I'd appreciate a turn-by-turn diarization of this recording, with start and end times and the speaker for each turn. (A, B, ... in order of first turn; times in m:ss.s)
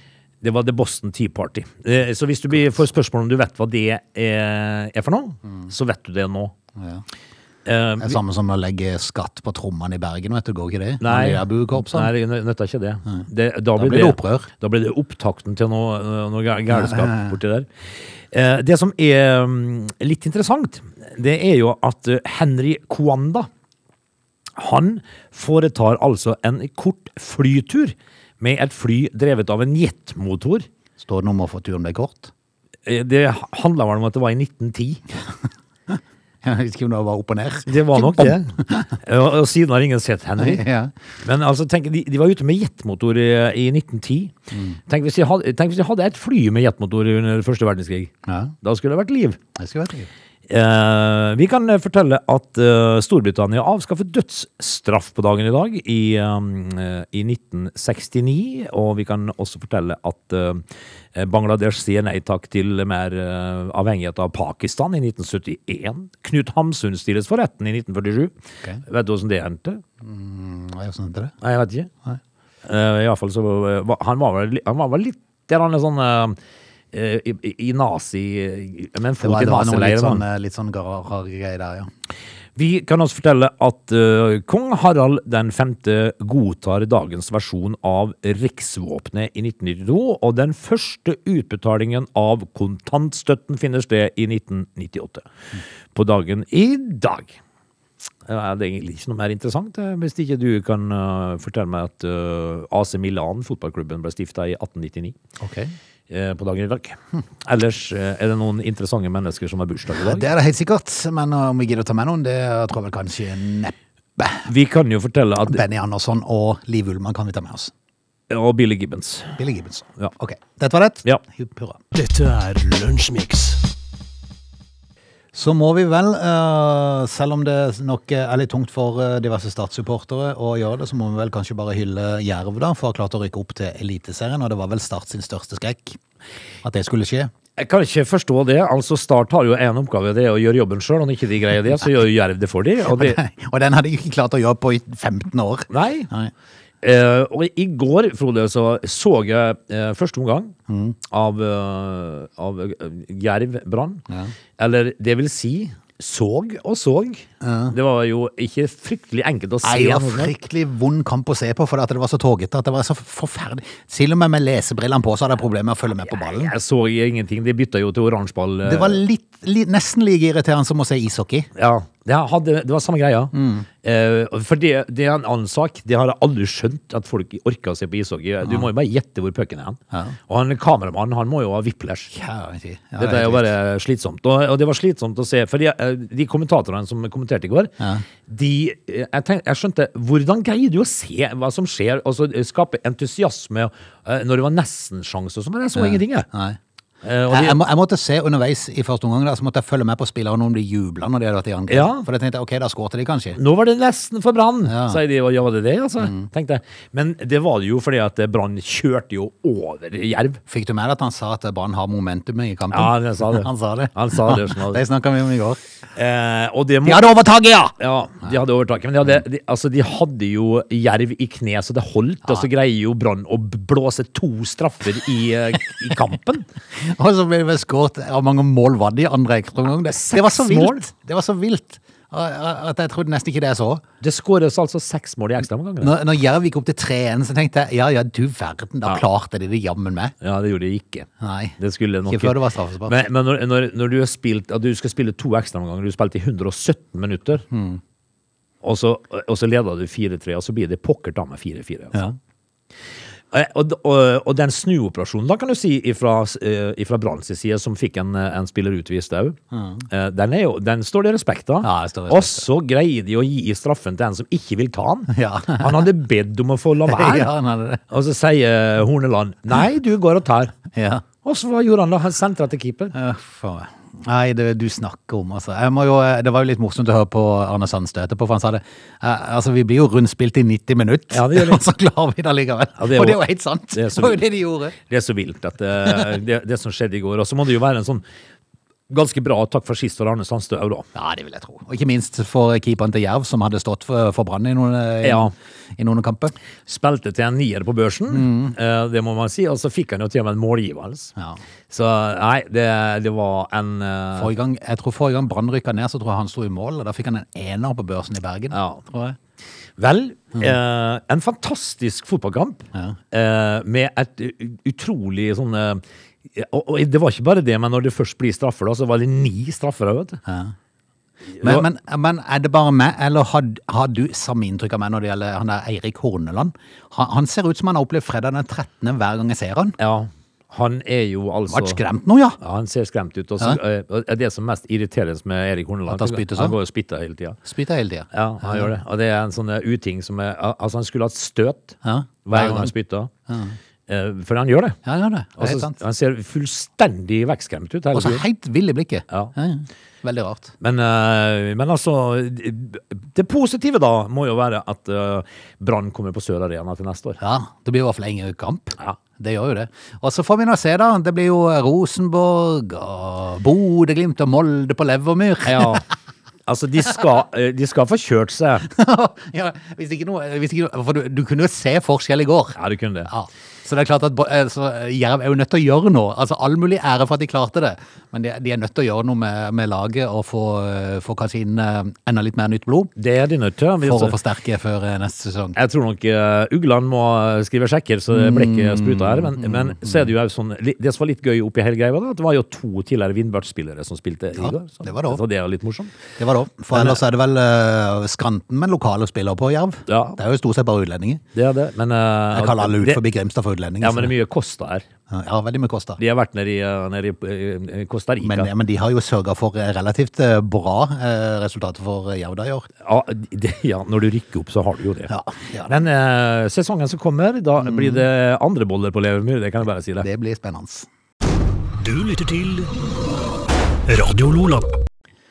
0:00.4-0:06.5 A
0:06.8-0:07.0 B
0:07.6-0:08.2 A
0:08.0-0:12.1 B
0:11.0-0:17.7 A
0:13.8-0:14.5 B
0:16.7-0:17.3 B
0:18.3-0:23.5 A
0:24.6-0:30.6 A
0:31.0-0:32.3 B
0:32.8-0:35.0 A
0:35.9-0:38.9 B
0:37.7-0:40.6 A
0:40.4-0:40.9 B
0:41.2-0:44.3 A
0:44.5-0:44.8 B
0:44.8-0:49.4 A
0:48.2-0:48.5 B
0:49.6-0:50.1 B
0:50.5-1:09.8 A
1:10.0-1:11.3 B
1:11.4-1:11.9 A
1:12.6-1:16.4 A
1:16.9-1:20.2 A
1:19.2-1:21.9 B
1:22.6-1:35.3 A
1:35.9-1:37.4 A
1:38.2-1:45.2 A
1:45.4-1:45.7 B
1:46.1-1:50.2 A
1:49.9-1:54.5 B
1:54.4-1:55.6 A
1:55.5-1:57.7 B
1:58.3-1:59.4 A
1:59.4-2:01.8 B
2:01.9-2:03.6 C
2:05.3-2:16.0 B
2:16.6-2:17.3 B
2:17.6-2:23.2 A
2:22.8-2:26.3 B
2:25.7-2:26.1 A
2:26.8-2:30.5 A
2:30.7-2:31.0 B
2:31.1-2:34.0 A
2:34.6-2:40.3 A
2:37.4-2:37.7 B
2:39.6-2:46.5 B
2:46.0-2:49.0 A
2:48.6-2:51.5 B
2:51.6-3:02.1 A
2:53.3-2:53.7 B
2:58.4-2:58.7 B
3:02.1-3:03.5 B
3:03.0-3:07.7 A
3:07.8-3:08.0 B
3:08.2-3:16.3 A
3:15.7-3:16.6 B
3:17.0-3:17.6 A
3:17.3-3:23.4 B
3:21.7-3:22.0 A
3:23.4-3:30.4 A
3:24.6-3:25.0 B
3:30.5-3:35.6 B
3:32.7-3:34.8 A
3:36.0-3:37.1 A
3:36.8-3:37.7 B
3:37.8-3:46.4 A
3:46.7-3:53.8 B
3:50.0-3:50.9 A
3:54.0-3:56.0 A
3:55.8-4:00.1 B
4:00.2-4:01.1 A
4:01.2-4:03.0 B
4:01.6-4:07.4 A
4:07.5-4:07.8 B
4:08.6-4:12.0 A
4:13.3-4:19.4 A
4:19.5-4:19.8 B
4:19.9-4:27.3 A
4:21.6-4:22.4 B
4:25.1-4:25.9 B
4:26.8-4:27.8 B
4:27.9-4:30.6 A
4:30.7-4:31.0 B
4:31.2-4:32.9 A
4:32.9-4:44.8 B
4:41.1-4:41.6 A
4:42.8-4:43.2 A
4:43.7-4:44.2 A
4:44.8-4:48.0 A
4:48.9-4:50.8 A
4:50.9-4:56.3 B
4:55.0-4:55.3 A
4:56.7-5:01.1 A
4:58.1-4:58.5 B
5:01.7-5:04.3 A
5:04.1-5:09.2 B
5:08.5-5:08.8 A
5:09.8-5:20.2 A
5:20.2-5:20.5 B
5:21.3-5:21.6 A
5:21.4-5:29.8 B
5:29.8-5:31.8 A
5:31.5-5:32.4 B
5:32.4-5:37.4 A
5:35.9-5:36.5 B
5:37.4-5:38.7 B
5:38.1-5:43.1 A
5:41.8-5:42.7 B
5:43.3-5:43.6 B
5:43.9-5:44.8 A
5:44.8-5:45.8 B
5:45.4-5:48.2 A
5:47.9-5:50.5 B
5:50.6-5:57.2 A
5:57.2-6:05.8 B
6:05.4-6:05.8 A
6:06.4-6:08.7 A
6:08.7-6:22.9 B
6:12.6-6:13.1 A
6:23.0-6:24.2 A
6:23.8-6:25.6 B
6:25.5-6:36.0 A
6:28.1-6:30.1 B
6:34.4-6:35.2 B
6:36.2-6:41.2 B
6:36.7-6:37.0 A
6:39.9-6:40.2 A
6:41.3-6:43.0 A
6:42.3-6:44.1 B
6:43.8-6:44.8 A
6:45.1-6:46.0 B
6:46.0-6:48.5 A
6:48.2-6:52.7 B
6:52.8-6:55.1 A
6:55.1-6:55.8 B
6:55.6-7:00.0 A
6:57.6-6:58.0 B
7:00.0-7:00.9 B
7:01.8-7:02.7 C
7:03.9-7:04.7 C